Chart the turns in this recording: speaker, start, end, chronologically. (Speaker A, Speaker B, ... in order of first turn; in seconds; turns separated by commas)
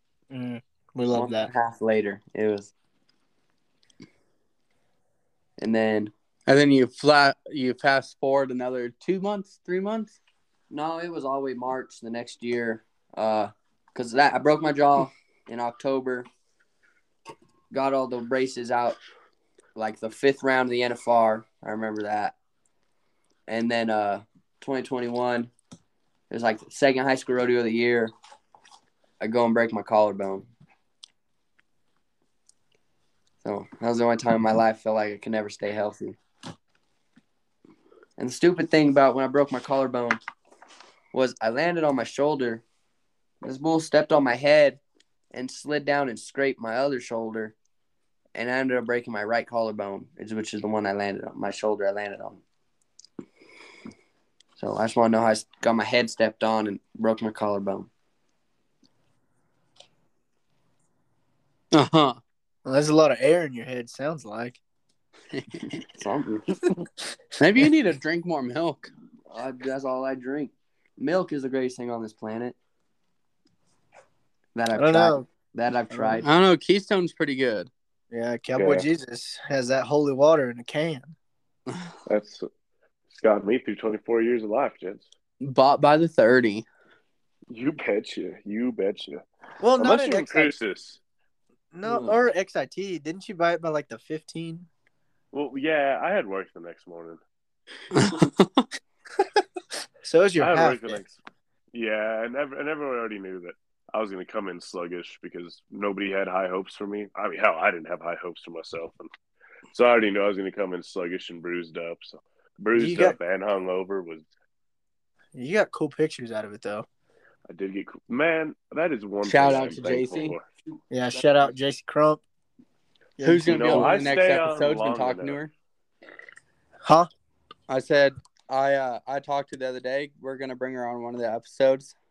Speaker A: 0.3-1.5, Speaker B: 1.1-2.7, Speaker B: 5.6-6.1, Speaker C: 6.5-10.2, Speaker B: 10.7-16.3, Speaker B: 17.7-19.0, Speaker B: 19.8-22.4, Speaker B: 23.5-25.5, Speaker B: 26.3-28.1, Speaker B: 29.2-30.5, Speaker B: 33.4-36.2, Speaker B: 38.2-40.2, Speaker B: 41.1-42.6, Speaker B: 43.4-44.8, Speaker B: 45.3-47.5, Speaker B: 48.4-52.4, Speaker B: 54.6-57.9, Speaker C: 61.7-62.2, Speaker A: 62.6-64.6, Speaker C: 65.3-65.8, Speaker B: 65.9-66.7, Speaker C: 67.4-68.9, Speaker B: 69.3-72.6, Speaker B: 74.5-76.3, Speaker A: 74.7-75.3, Speaker A: 75.9-76.2, Speaker C: 76.2-77.7, Speaker A: 78.1-81.2, Speaker D: 78.6-78.9, Speaker D: 82.1-82.5, Speaker D: 83.1-85.1, Speaker C: 85.4-86.7, Speaker D: 87.5-89.2, Speaker A: 89.6-90.5, Speaker D: 89.8-91.0, Speaker A: 91.7-94.7, Speaker B: 91.8-92.2, Speaker D: 95.3-97.2, Speaker C: 97.9-98.7, Speaker A: 100.0-101.0, Speaker D: 100.4-101.2, Speaker D: 101.7-109.1, Speaker D: 109.7-114.3, Speaker A: 112.8-113.2, Speaker A: 115.3-116.9, Speaker D: 117.5-120.5, Speaker C: 119.2-120.4, Speaker B: 120.7-121.5, Speaker A: 120.9-122.2, Speaker A: 123.2-124.0, Speaker C: 123.2-125.5, Speaker D: 123.5-125.4, Speaker A: 126.8-127.1, Speaker C: 127.7-131.9